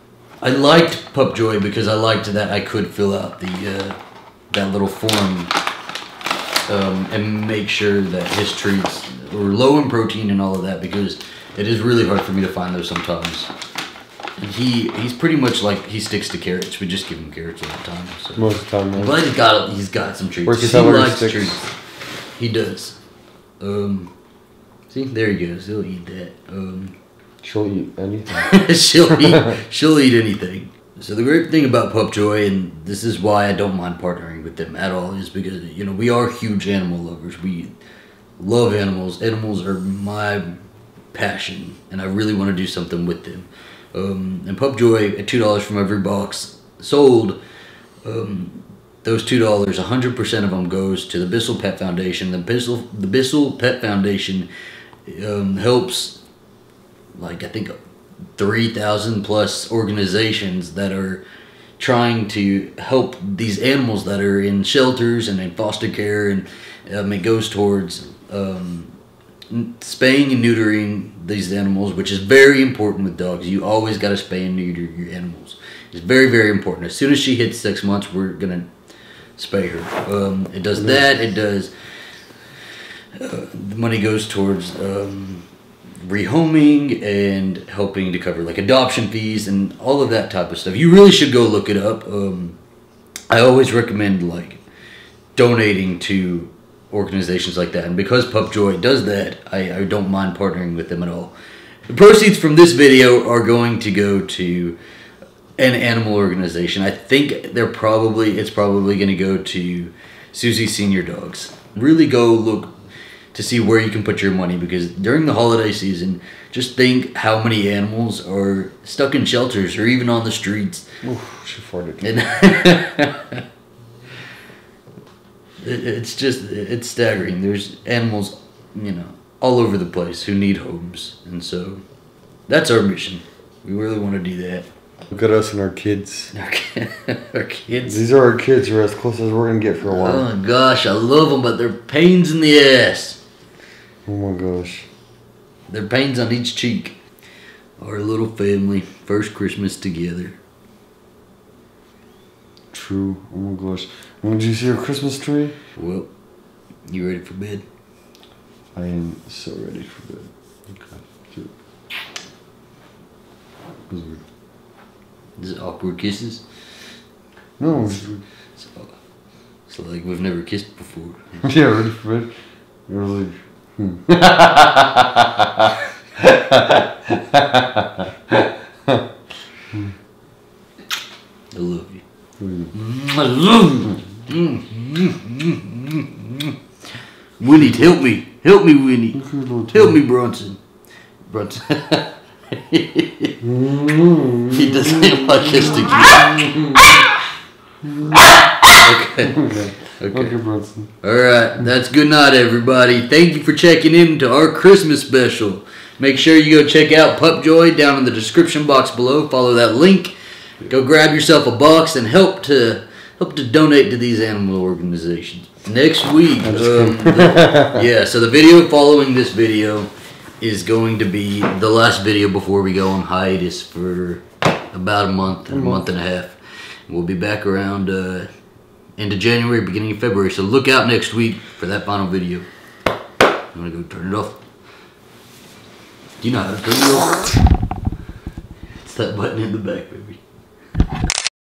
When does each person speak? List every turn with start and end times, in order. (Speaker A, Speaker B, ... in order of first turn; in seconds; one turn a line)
Speaker A: 0.4-4.0
Speaker A: 4.5-5.5
Speaker A: 6.7-13.5
Speaker A: 14.4-21.7
Speaker B: 18.4-19.1
Speaker B: 20.4-21.6
Speaker A: 22.4-23.0
Speaker A: 23.6-24.1
Speaker A: 24.9-26.9
Speaker B: 27.4-29.5
Speaker A: 28.4-37.7
Speaker A: 38.4-40.6
Speaker A: 41.1-47.4
Speaker A: 48.0-54.5
Speaker A: 55.0-56.2
Speaker A: 57.1-57.8
Speaker A: 58.4-61.2
Speaker A: 61.8-69.0
Speaker A: 69.5-78.7
Speaker A: 79.4-81.7
Speaker B: 80.7-81.1
Speaker A: 83.2-85.5
Speaker A: 86.0-92.6
Speaker A: 93.3-94.6
Speaker A: 95.3-101.3
Speaker A: 101.9-104.8
Speaker A: 105.6-112.7
Speaker A: 113.3-120.8
Speaker B: 121.0-122.1
Speaker A: 122.0-123.4
Speaker A: 125.6-131.8
Speaker A: 132.5-134.7
Speaker B: 135.1-136.3
Speaker A: 136.3-138.0
Speaker B: 137.8-140.2
Speaker A: 139.8-143.2
Speaker B: 144.1-144.9
Speaker A: 145.7-146.9
Speaker A: 147.8-150.4
Speaker B: 152.7-155.5
Speaker A: 155.8-156.1
Speaker A: 156.9-157.6
Speaker B: 158.7-160.3
Speaker B: 163.9-164.2
Speaker A: 165.4-166.4
Speaker B: 167.6-168.2
Speaker A: 168.6-168.9
Speaker A: 169.7-171.4
Speaker B: 171.4-172.3
Speaker B: 172.9-174.6
Speaker B: 176.2-179.0
Speaker A: 181.5-182.0
Speaker B: 182.4-182.7
Speaker A: 182.7-186.6
Speaker A: 187.4-190.6
Speaker B: 189.2-189.7
Speaker A: 191.3-193.3
Speaker B: 193.4-195.6
Speaker A: 194.5-196.5
Speaker B: 197.8-198.2
Speaker A: 198.6-199.4
Speaker B: 199.2-200.9
Speaker A: 200.0-200.4
Speaker A: 201.0-210.1
Speaker A: 210.7-228.3
Speaker B: 216.4-217.8
Speaker B: 225.5-225.9
Speaker A: 229.0-232.4
Speaker A: 233.5-234.4
Speaker A: 236.2-237.4
Speaker A: 238.8-240.2